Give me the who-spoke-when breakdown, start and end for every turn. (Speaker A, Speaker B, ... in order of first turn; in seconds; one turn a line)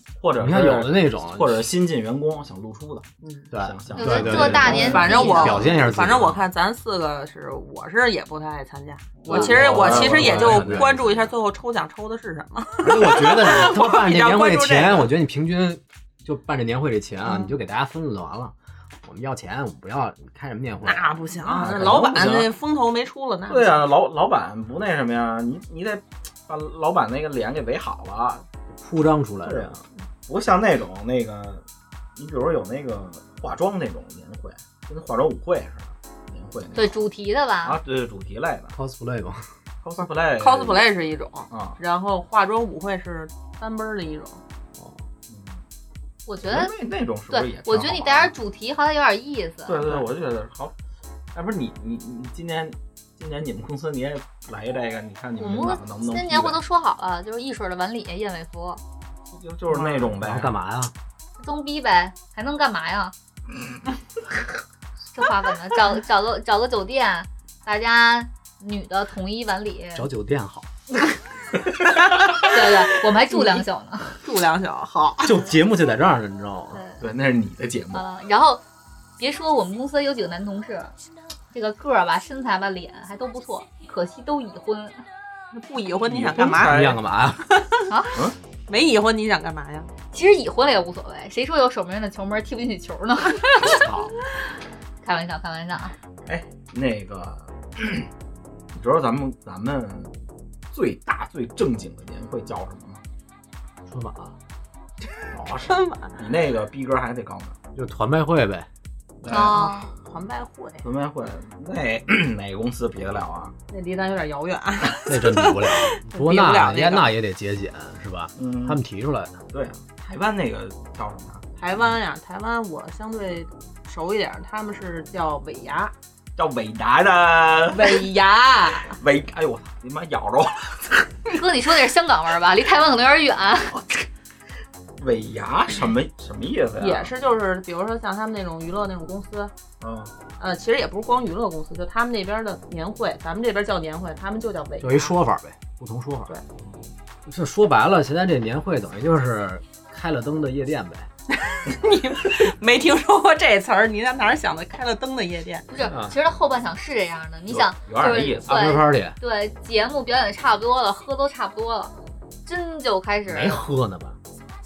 Speaker A: 0.2-5.6
Speaker B: 0.4-1.7
Speaker C: 3.2-3.5
Speaker B: 3.5-6.4
Speaker D: 4.0-5.6
Speaker C: 4.2-15.1
Speaker A: 9.3-11.2
Speaker B: 9.3-11.2
Speaker B: 12.8-22.5
Speaker C: 17.3-17.5
Speaker C: 20.8-23.9
Speaker A: 21.4-22.5
Speaker A: 23.5-28.5
Speaker B: 28.7-29.8
Speaker A: 29.4-31.6
Speaker A: 32.2-37.0
Speaker D: 36.8-37.8
Speaker A: 37.6-38.7
Speaker B: 38.7-39.4
Speaker A: 39.8-40.9
Speaker C: 40.4-44.4
Speaker A: 41.5-41.8
Speaker B: 44.8-45.0
Speaker A: 45.3-45.6
Speaker D: 46.3-46.7
Speaker A: 46.5-48.3
Speaker D: 47.3-49.8
Speaker A: 49.7-50.7
Speaker A: 51.3-56.6
Speaker D: 55.4-58.8
Speaker A: 59.3-60.5
Speaker B: 59.7-60.9
Speaker D: 61.4-63.1
Speaker D: 65.2-70.1
Speaker B: 70.0-70.7
Speaker D: 72.5-74.2
Speaker C: 73.3-75.4
Speaker B: 75.2-76.8
Speaker D: 76.7-77.0
Speaker A: 77.0-78.0
Speaker D: 77.9-78.6
Speaker D: 79.2-80.9
Speaker D: 81.5-85.0
Speaker C: 85.5-86.8
Speaker A: 86.1-87.0
Speaker B: 86.6-87.6
Speaker C: 87.5-87.9
Speaker D: 87.9-88.2
Speaker C: 88.7-89.9
Speaker D: 90.1-93.9
Speaker A: 93.6-94.1
Speaker D: 95.0-96.0
Speaker A: 96.3-98.1
Speaker A: 98.7-100.1
Speaker A: 100.7-103.0
Speaker B: 103.9-104.4
Speaker A: 105.2-107.6
Speaker C: 105.7-106.1
Speaker B: 107.8-108.7
Speaker A: 109.2-109.6
Speaker C: 109.3-110.9
Speaker D: 109.3-109.9
Speaker A: 110.8-113.5
Speaker C: 113.7-117.1
Speaker B: 115.0-119.4
Speaker A: 118.4-118.8
Speaker A: 119.5-121.4
Speaker C: 121.6-125.9
Speaker A: 126.4-128.1
Speaker C: 127.7-129.0
Speaker A: 128.9-131.1
Speaker D: 131.3-133.8
Speaker A: 133.7-134.1
Speaker A: 135.0-137.1
Speaker C: 136.8-139.5
Speaker A: 139.8-140.1
Speaker C: 140.4-145.1
Speaker B: 144.8-146.3
Speaker B: 147.3-151.1
Speaker C: 151.4-155.7
Speaker D: 155.7-161.9
Speaker B: 155.8-156.2
Speaker A: 157.5-158.6
Speaker B: 158.5-159.2
Speaker D: 162.5-163.6
Speaker B: 163.2-164.2